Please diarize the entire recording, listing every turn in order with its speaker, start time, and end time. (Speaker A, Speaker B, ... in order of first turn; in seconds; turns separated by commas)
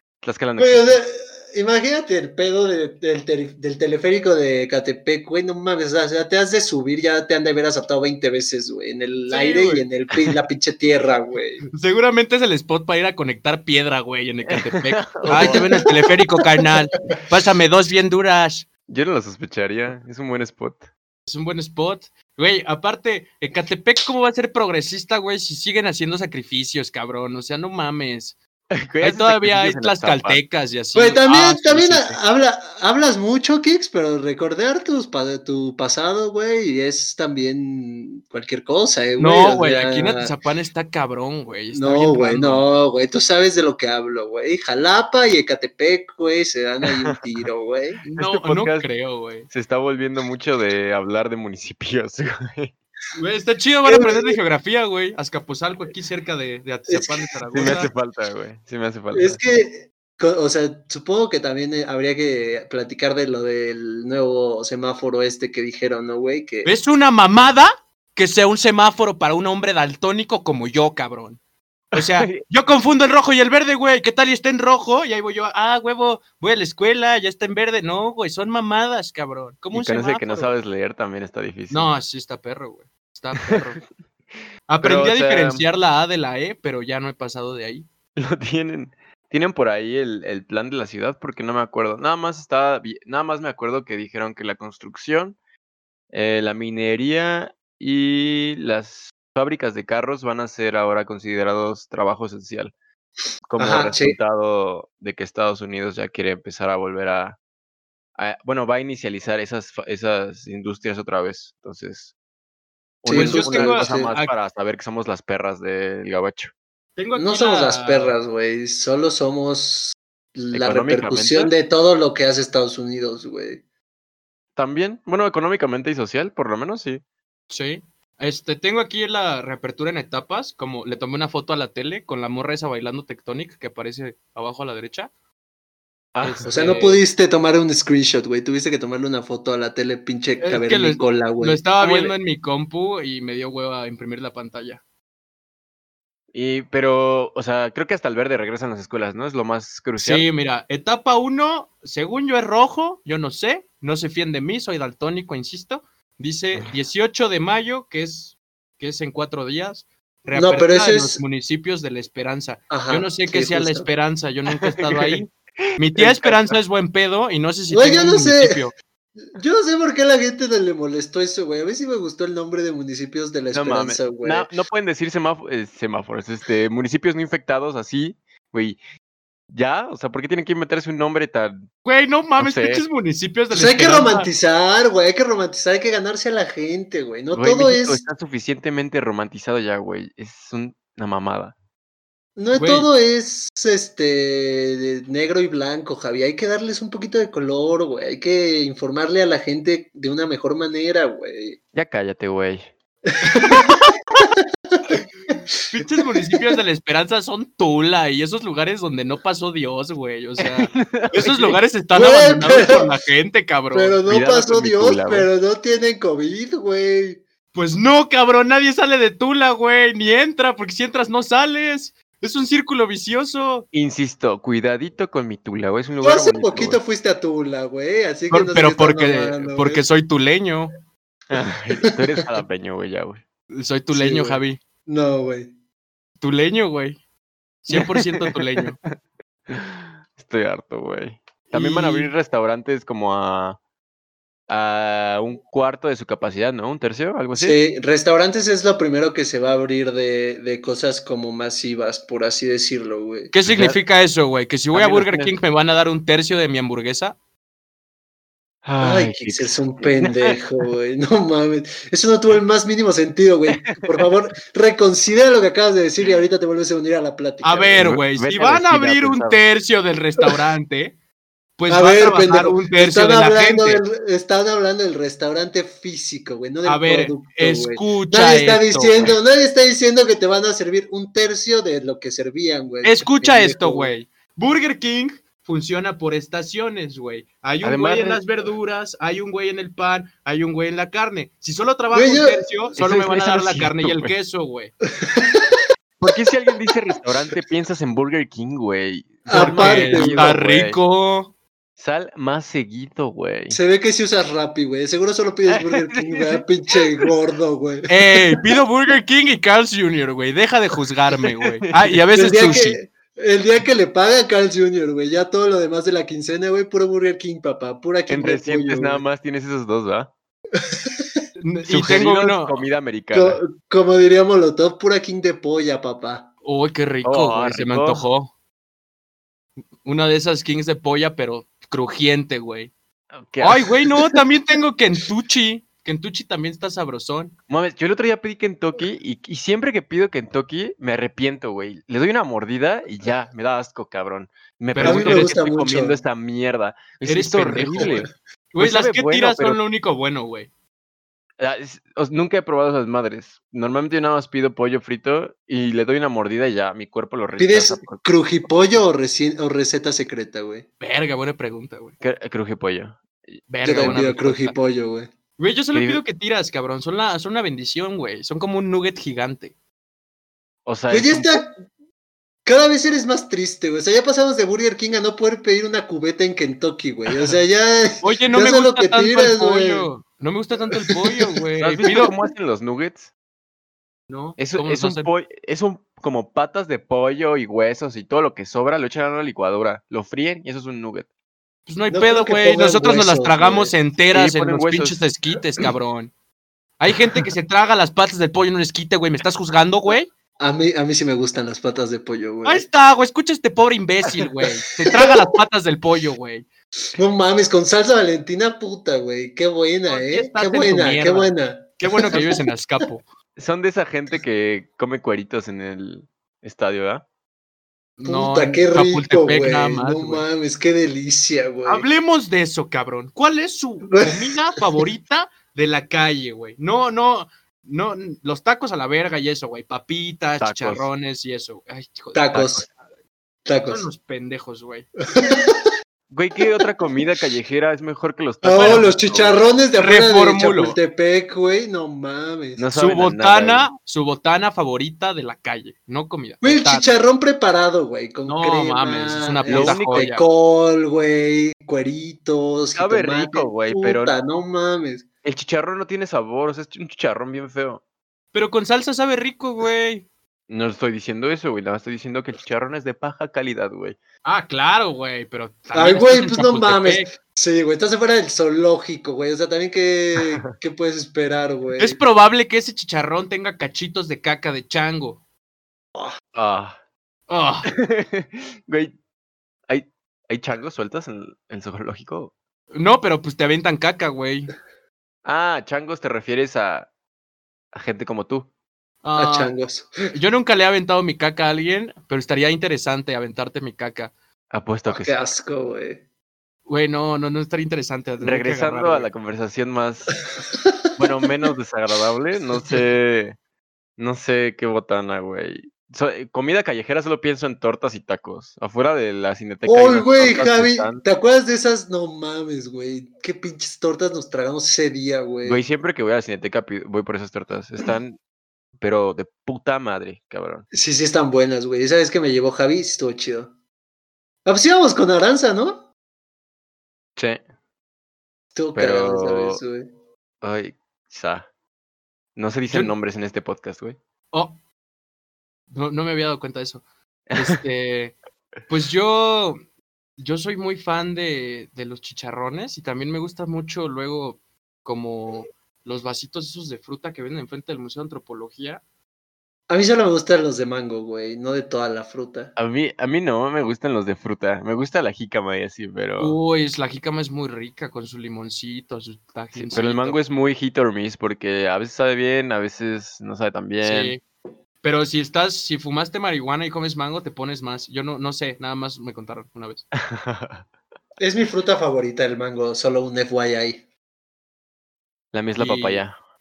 Speaker A: 0.2-1.0, Speaker B: 0.6-11.6, Speaker C: 9.3-9.8, Speaker C: 11.7-18.7, Speaker A: 14.5-15.7, Speaker B: 15.2-15.6, Speaker A: 18.9-20.9, Speaker C: 21.3-28.3, Speaker A: 28.7-30.4, Speaker C: 29.0-32.2, Speaker B: 30.9-40.3, Speaker C: 39.2-42.6, Speaker B: 41.7-48.0, Speaker C: 48.0-49.5, Speaker A: 48.2-48.9, Speaker A: 49.5-52.7, Speaker C: 53.1-57.9, Speaker B: 53.8-54.4, Speaker B: 56.9-57.2, Speaker A: 57.5-59.4, Speaker B: 59.1-66.7, Speaker C: 66.6-71.4, Speaker A: 71.9-72.4, Speaker C: 71.9-80.5, Speaker A: 79.7-81.9, Speaker C: 81.7-83.8, Speaker C: 84.7-87.9, Speaker A: 84.8-85.6, Speaker A: 88.2-95.3, Speaker A: 96.1-102.7, Speaker A: 103.5-107.4, Speaker B: 103.6-104.2, Speaker A: 108.2-112.1, Speaker A: 113.0-116.5, Speaker B: 113.0-114.1, Speaker C: 113.1-114.3, Speaker C: 117.0-118.2, Speaker B: 117.1-123.6, Speaker A: 120.5-121.5, Speaker A: 124.5-127.0, Speaker C: 127.5-135.1, Speaker A: 136.1-136.5, Speaker C: 136.2-137.0, Speaker B: 136.4-141.7, Speaker C: 140.4-144.8, Speaker A: 141.8-142.1, Speaker A: 146.3-150.2, Speaker C: 150.0-168.7, Speaker B: 160.3-161.2, Speaker B: 162.7-163.9, Speaker A: 164.5-165.2, Speaker A: 165.9-166.6, Speaker B: 167.7-168.6, Speaker B: 169.2-174.5, Speaker A: 173.5-178.8, Speaker A: 179.5-181.6, Speaker C: 181.8-184.3, Speaker A: 182.4-182.8, Speaker B: 183.5-188.0, Speaker A: 187.3-191.5, Speaker B: 192.3-201.6, Speaker C: 192.5-192.9, Speaker A: 201.7-202.7, Speaker B: 203.1-206.5, Speaker C: 205.7-214.0, Speaker A: 210.4-211.6, Speaker B: 211.9-212.9, Speaker B: 213.7-217.2, Speaker A: 214.1-215.3, Speaker C: 217.5-223.7, Speaker A: 223.7-226.8, Speaker B: 226.0-229.8, Speaker C: 228.3-230.7, Speaker A: 231.3-233.2, Speaker C: 233.5-234.6, Speaker B: 233.9-235.5, Speaker C: 236.2-237.0, Speaker C: 237.6-238.8, Speaker A: 237.7-238.6, Speaker A: 239.5-243.6, Speaker C: 241.5-242.1, Speaker A: 244.5-247.6, Speaker B: 247.3-253.3, Speaker C: 253.3-257.1, Speaker A: 253.4-253.8, Speaker A: 254.7-255.3, Speaker A: 258.6-260.4, Speaker B: 258.8-267.8, Speaker A: 263.5-264.1, Speaker C: 267.4-270.9, Speaker A: 267.8-269.4, Speaker C: 271.6-273.8, Speaker B: 271.7-283.9, Speaker C: 276.6-279.1, Speaker C: 282.8-294.7, Speaker A: 287.6-288.2, Speaker B: 291.9-292.4, Speaker A: 292.8-294.1, Speaker B: 295.0-295.6, Speaker A: 296.0-300.8, Speaker B: 299.3-300.3, Speaker C: 299.3-301.3, Speaker A: 301.8-303.6, Speaker B: 303.5-308.2, Speaker A: 305.5-307.1, Speaker C: 307.9-312.8, Speaker A: 311.7-312.0, Speaker B: 312.1-319.0, Speaker A: 318.1-320.1, Speaker B: 320.5-321.2, Speaker C: 321.4-322.6, Speaker A: 321.6-323.4, Speaker B: 323.1-326.3, Speaker C: 326.4-328.3, Speaker A: 327.0-328.0, Speaker C: 329.8-332.7, Speaker A: 333.2-333.7, Speaker C: 333.4-337.3, Speaker A: 337.5-349.6, Speaker C: 344.7-345.4, Speaker B: 344.8-346.0, Speaker C: 347.0-350.5, Speaker A: 351.4-358.1, Speaker B: 357.4-360.6, Speaker C: 360.8-361.9, Speaker A: 362.0-364.0, Speaker C: 363.5-364.6, Speaker B: 363.6-365.1, Speaker C: 365.4-369.5, Speaker A: 365.7-366.0, Speaker A: 370.6-371.4, Speaker B: 370.9-371.6, Speaker B: 372.4-379.9, Speaker C: 378.0-382.1, Speaker B: 380.9-381.2, Speaker A: 381.6-383.1, Speaker C: 384.1-385.1, Speaker A: 384.4-391.1, Speaker C: 391.7-396.1, Speaker B: 391.9-393.7, Speaker A: 394.1-395.0, Speaker C: 396.8-400.1, Speaker B: 400.4-402.7, Speaker C: 402.4-406.4, Speaker B: 404.9-405.2, Speaker B: 406.9-412.4, Speaker C: 409.9-413.0, Speaker A: 413.4-417.0, Speaker C: 418.0-420.2, Speaker B: 418.0-421.9, Speaker C: 421.6-432.2, Speaker B: 423.9-424.3, Speaker A: 430.4-430.9, Speaker B: 432.1-432.6, Speaker A: 432.3-432.7, Speaker B: 433.4-433.9, Speaker C: 433.7-434.9, Speaker B: 435.1-435.7, Speaker A: 436.1-439.4, Speaker B: 438.4-442.6, Speaker C: 438.5-438.9, Speaker C: 439.8-440.8, Speaker A: 442.6-443.7, Speaker C: 442.7-446.9, Speaker B: 446.4-455.0, Speaker C: 448.2-450.2, Speaker A: 449.5-450.1, Speaker A: 452.7-454.2, Speaker A: 455.2-457.8, Speaker C: 458.3-460.1, Speaker A: 460.5-464.0, Speaker C: 464.2-467.1, Speaker B: 465.7-472.0, Speaker C: 471.8-475.2, Speaker A: 476.3-476.8, Speaker C: 477.3-477.7, Speaker A: 477.6-478.9, Speaker A: 479.7-482.3, Speaker C: 482.7-484.5, Speaker A: 485.2-486.9, Speaker A: 487.7-488.5, Speaker C: 489.0-489.5, Speaker B: 489.1-490.1, Speaker C: 490.1-494.1, Speaker A: 494.5-495.1, Speaker B: 494.9-496.0, Speaker C: 496.7-499.1, Speaker A: 498.2-500.2, Speaker A: 500.9-503.3, Speaker A: 504.0-511.0, Speaker B: 509.6-515.6, Speaker A: 515.4-518.2, Speaker A: 518.8-520.6, Speaker B: 520.7-523.5, Speaker B: 524.4-525.9, Speaker B: 528.5-529.9, Speaker A: 528.7-529.6, Speaker A: 530.4-531.5, Speaker A: 532.4-534.0, Speaker C: 534.3-534.6, Speaker C: 535.7-536.8, Speaker A: 537.3-537.6, Speaker C: 537.3-538.1, Speaker C: 538.7-539.6, Speaker C: 540.2-548.8, Speaker B: 549.7-552.5, Speaker A: 552.5-556.4, Speaker C: 556.2-560.2, Speaker A: 559.5-564.1, Speaker C: 563.8-564.2, Speaker C: 564.8-569.8, Speaker A: 570.0-570.6, Speaker B: 571.2-573.8, Speaker A: 575.3-576.1, Speaker C: 575.6-576.0